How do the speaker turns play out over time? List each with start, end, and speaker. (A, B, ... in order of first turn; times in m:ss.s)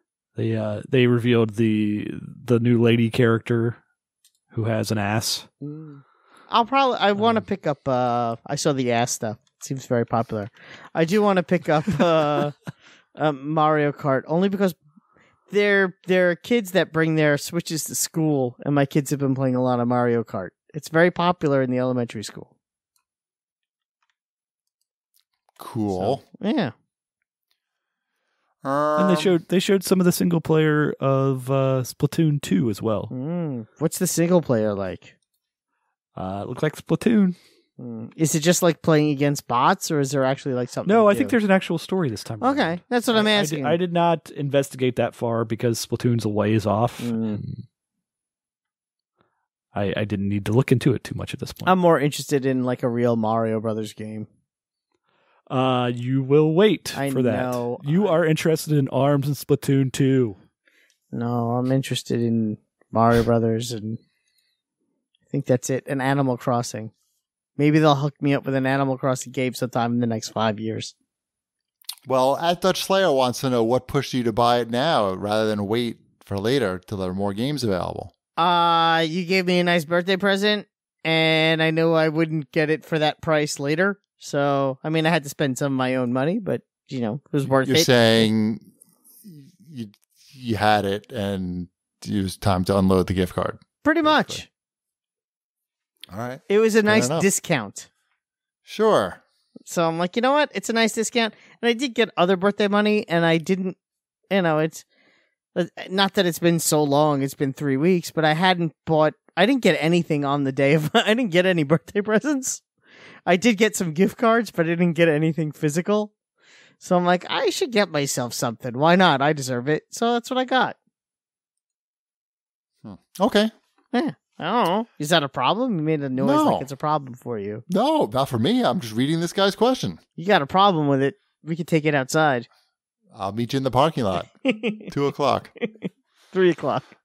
0:00.4-0:03.8 A
0:04.5-0:05.5 A
0:05.6-0:12.5 B
0:13.2-0:14.8 B
0:15.5-0:22.5 B
0:25.6-0:26.2 C
0:25.9-0:26.7 B
0:28.6-0:29.4 C
0:29.0-0:33.1 A
0:33.1-0:35.1 B
0:36.2-0:37.4 A
0:37.8-0:41.3 B
0:40.8-0:47.6 A
0:42.4-0:43.8 B
0:47.0-0:47.4 B
0:49.7-0:51.8 A
0:51.6-0:54.3 B
0:55.5-1:00.4 A
0:56.9-0:58.2 B
1:01.1-1:04.0 B
1:05.3-1:06.9 B
1:07.6-1:10.9 B
1:12.1-1:18.1 C
1:18.4-1:28.3 B
1:27.6-1:28.7 C
1:29.3-1:34.4 C
1:33.8-1:34.5 B
1:36.1-1:37.2 C
1:36.5-1:37.9 B
1:38.6-1:39.2 C
1:39.6-1:43.8 B
1:44.3-1:44.8 B
1:45.5-1:52.6 B
1:53.2-1:56.1 B
1:56.8-2:00.8 B
2:02.8-2:03.5 C
2:03.9-2:07.6 B
2:06.2-2:06.7 C
2:07.7-2:10.0 C
2:10.2-2:12.5 B
2:13.1-2:14.3 C
2:14.4-2:14.9 B
2:14.9-2:15.5 C
2:16.3-2:16.9 B